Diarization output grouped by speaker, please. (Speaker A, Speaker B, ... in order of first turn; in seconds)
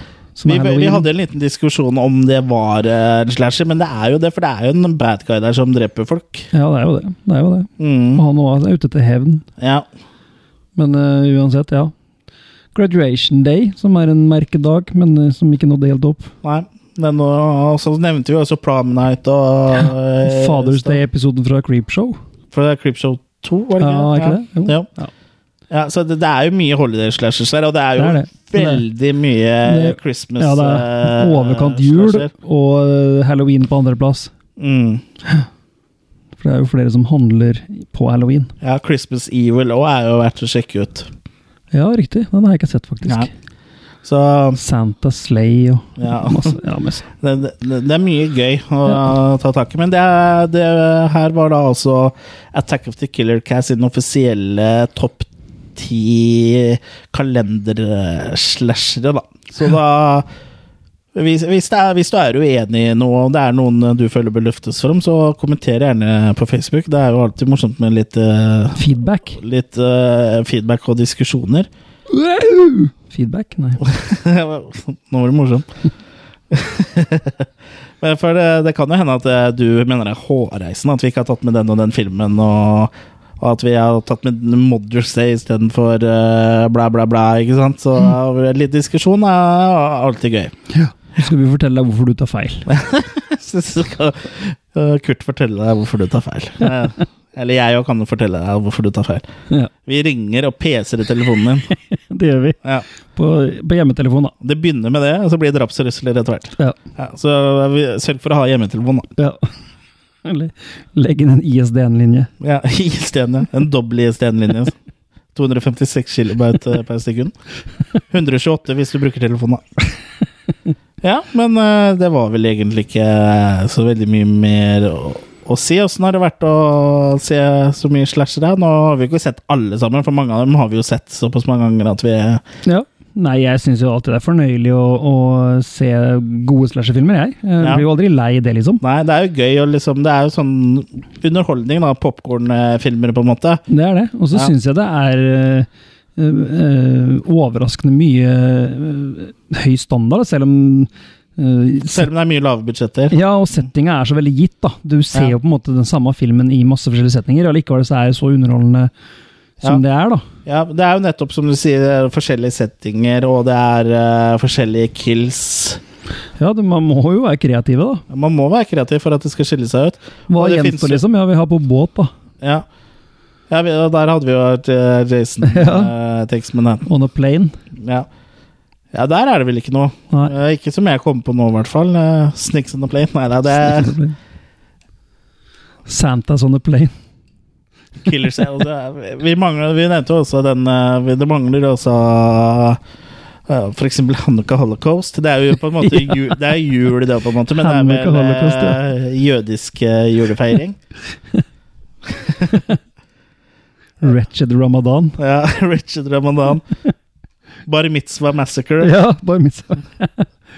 Speaker A: 0.4-1.1, 6.5-9.4, 10.8-11.9, 12.7-16.3, 20.2-22.2, 23.8-25.1, 28.0-28.8, 29.6-34.3, 36.4-38.5, 41.7-43.3, 44.5-47.0, 68.8-69.4, 72.1-73.8, 90.7-92.7, 101.9-102.6, 103.1-104.3, 109.2-109.4, 110.2-112.3, 132.7-138.8, 143.7-152.1, 153.1-158.9, 159.6-160.2, 166.4-168.0, 170.3-172.1, 175.4-175.9, 176.9-177.5, 183.5-184.2, 185.8-186.9, 195.8-196.4, 197.6-198.8, 204.0-205.2, 208.8-210.3
Speaker B: 0.4-6.5, 7.8-8.2, 9.6-9.9, 16.4-21.0, 22.5-24.9, 25.7-32.3, 34.6-35.0, 38.6-41.1, 44.0-44.6, 46.0-46.6, 47.2-60.3, 61.1-71.7, 73.8-75.7, 76.5-77.5, 78.0-90.5, 92.7-99.2, 99.8-101.7, 104.4-109.1, 112.4-114.7, 115.3-117.3, 118.1-119.6, 121.0-132.4, 138.8-143.6, 151.9-153.2, 160.4-165.8, 168.1-171.0, 172.4-172.7, 173.5-176.9, 177.8-178.1, 178.9-183.9, 188.0-192.8, 193.5-200.8, 205.2-206.6, 207.7-208.9